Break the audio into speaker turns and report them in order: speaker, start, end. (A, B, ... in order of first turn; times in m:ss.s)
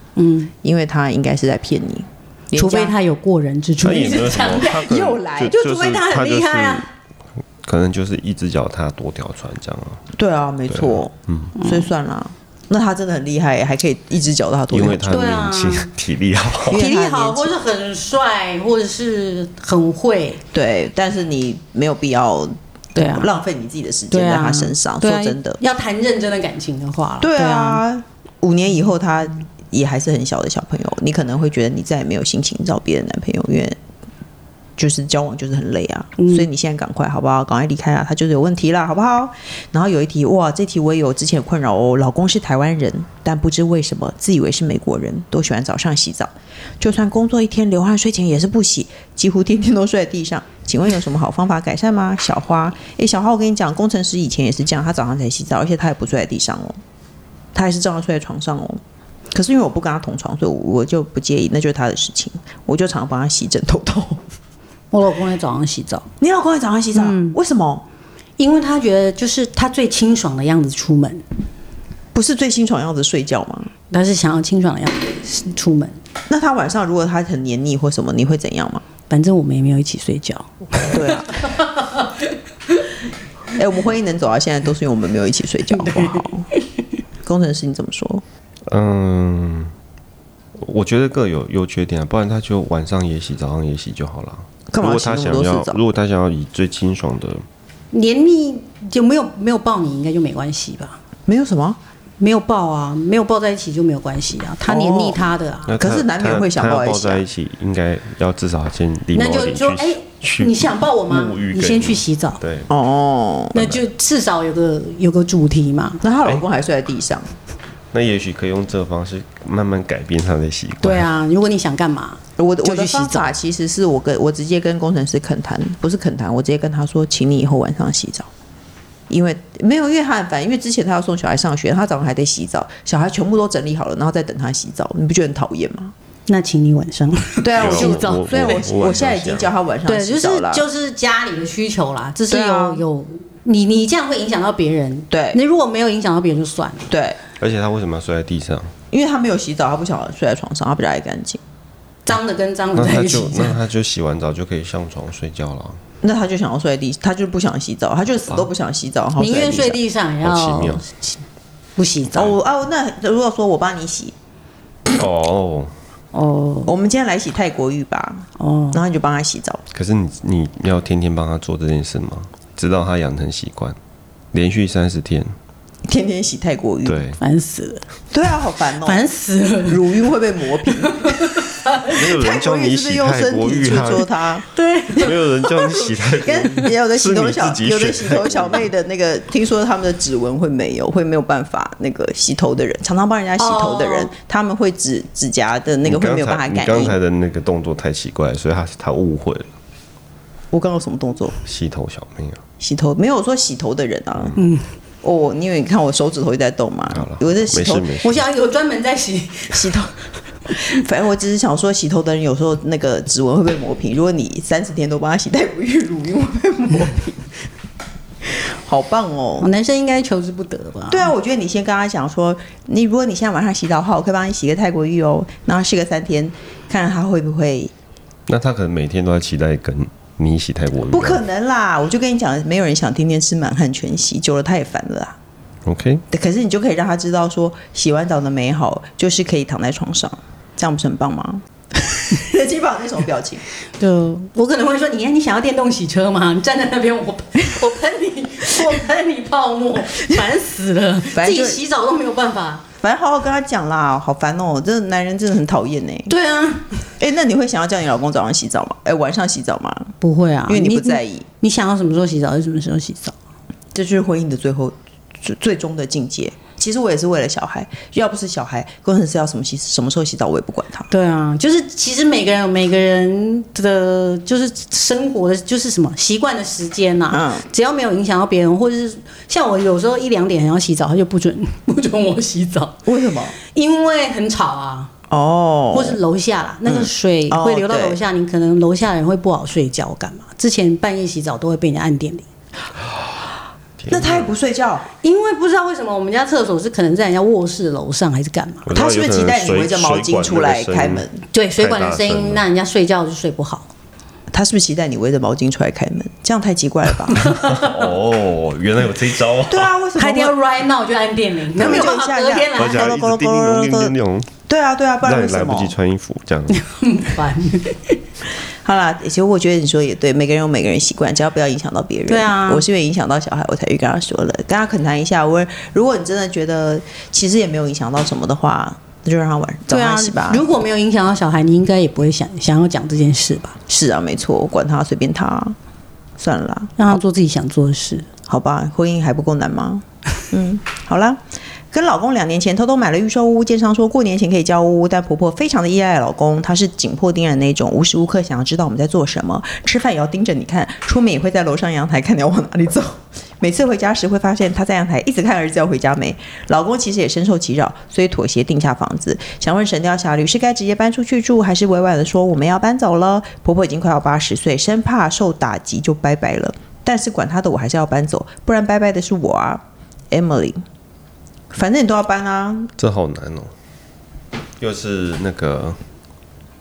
0:00.2-0:00.5 A
0:00.6-0:03.0 B
0:02.5-0:04.9 A
0:03.8-0:06.9 C
0:04.0-0:05.6 B
0:05.5-0:06.9 A
0:07.6-0:10.0 C
0:10.2-0:15.1 B
0:10.7-0:11.6 C
0:11.6-0:11.9 A
0:14.7-0:16.9 C
0:15.1-0:15.9 A
0:16.7-0:17.5 B
0:16.7-0:20.4 A
0:20.5-0:25.6 B
0:23.0-0:23.3 A
0:24.1-0:27.8 A
0:27.2-0:33.8 B
0:34.8-0:56.8 B
0:36.2-0:36.5 A
0:57.6-0:58.8 B
0:59.3-1:04.2 B
1:04.9-1:06.1 A
1:06.2-1:07.8 B
1:06.9-1:07.4 A
1:08.4-1:11.2 A
1:12.1-1:13.7 B
1:13.9-1:16.0 A
1:16.3-1:18.8 B
1:19.1-1:22.8 A
1:20.9-1:21.3 B
1:23.6-1:26.5 B
1:25.7-1:26.8 A
1:27.2-1:28.2 B
1:28.7-1:29.7 C
1:30.6-1:37.4 C
1:34.7-1:35.8 B
1:37.9-1:41.0 A
1:41.3-1:41.8 B
1:42.2-1:45.8 A
1:44.6-1:47.2 B
1:45.7-1:52.7 C
1:49.1-1:52.4 A
1:52.7-1:53.7 B
1:53.5-1:56.0 A
1:56.0-1:57.3 B
1:57.9-2:01.1 C
2:00.8-2:03.3 A
2:02.4-2:08.3 B
2:09.1-2:15.9 B
2:16.3-2:18.6 A
2:17.4-2:20.7 B
2:17.6-2:19.5 C
2:19.9-2:26.9 A
2:22.3-2:22.8 B
2:25.1-2:25.4 B
2:26.9-2:27.2 B
2:27.4-2:28.7 C
2:28.9-2:31.4 B
2:32.1-2:33.6 A
2:32.8-2:35.8 C
2:36.0-2:39.8 B
2:39.2-2:41.2 A
2:40.2-2:40.8 C
2:41.8-2:42.3 A
2:42.1-2:44.1 B
2:44.9-2:45.7 C
2:46.1-2:46.8 A
2:46.7-2:49.6 B
2:48.4-2:48.8 A
2:49.7-2:53.8 C
2:54.3-2:55.3 C
2:55.9-2:57.0 B
2:56.8-2:57.2 C
2:57.2-2:57.8 A
2:58.1-2:59.1 B
2:58.8-3:00.0 A
2:59.7-3:01.1 B
3:00.8-3:02.0 A
3:01.9-3:04.1 C
3:02.2-3:04.5 B
3:04.5-3:05.7 A
3:05.0-3:08.7 C
3:05.7-3:17.0 B
3:13.4-3:14.1 A
3:15.8-3:19.5 C
3:20.5-3:21.4 B
3:21.4-3:22.4 C
3:22.6-3:24.4 B
3:24.4-3:24.7 A
3:25.0-3:27.9 B
3:26.9-3:28.2 C
3:28.0-3:29.8 A
3:29.5-3:29.9 B
3:30.6-3:37.3 B
3:38.7-3:39.5 B
3:39.4-3:41.1 A
3:40.9-3:47.7 B
3:48.3-3:51.2 C
3:50.9-3:55.2 B
3:55.7-3:56.0 C
3:56.1-4:01.4 B
4:02.1-4:03.4 B
4:03.8-4:12.6 A
4:11.1-4:11.6 B
4:12.8-4:16.1 B
4:16.1-4:16.9 A
4:17.0-4:19.9 B
4:20.0-4:23.2 A
4:20.5-4:21.3 B
4:23.7-4:30.9 B
4:30.9-4:44.9 A
4:37.1-4:37.5 B
4:42.9-4:43.4 B
4:45.1-4:46.0 B
4:45.7-4:52.3 A
4:46.6-4:48.0 B
4:53.8-4:54.3 C
4:53.9-4:54.9 B
4:55.0-4:58.7 A
4:58.7-5:01.1 C
4:58.7-5:01.2 B
5:01.3-5:03.7 A
5:01.6-5:02.4 C
5:04.3-5:07.2 B
5:07.1-5:07.7 A
5:07.2-5:09.7 C
5:09.5-5:10.4 B
5:10.0-5:12.9 A
5:11.6-5:13.9 B
5:12.6-5:14.3 C
5:14.5-5:15.8 B
5:15.0-5:16.6 C
5:16.5-5:18.0 A
5:18.6-5:30.5 B
5:22.1-5:22.7 A
5:29.7-5:33.6 A
5:33.7-5:35.6 B
5:36.2-5:37.0 B
5:36.8-5:38.1 A
5:38.3-5:41.2 B
5:41.7-6:10.6 B
6:11.5-6:12.7 B
6:12.8-6:13.5 C
6:14.6-6:15.8 C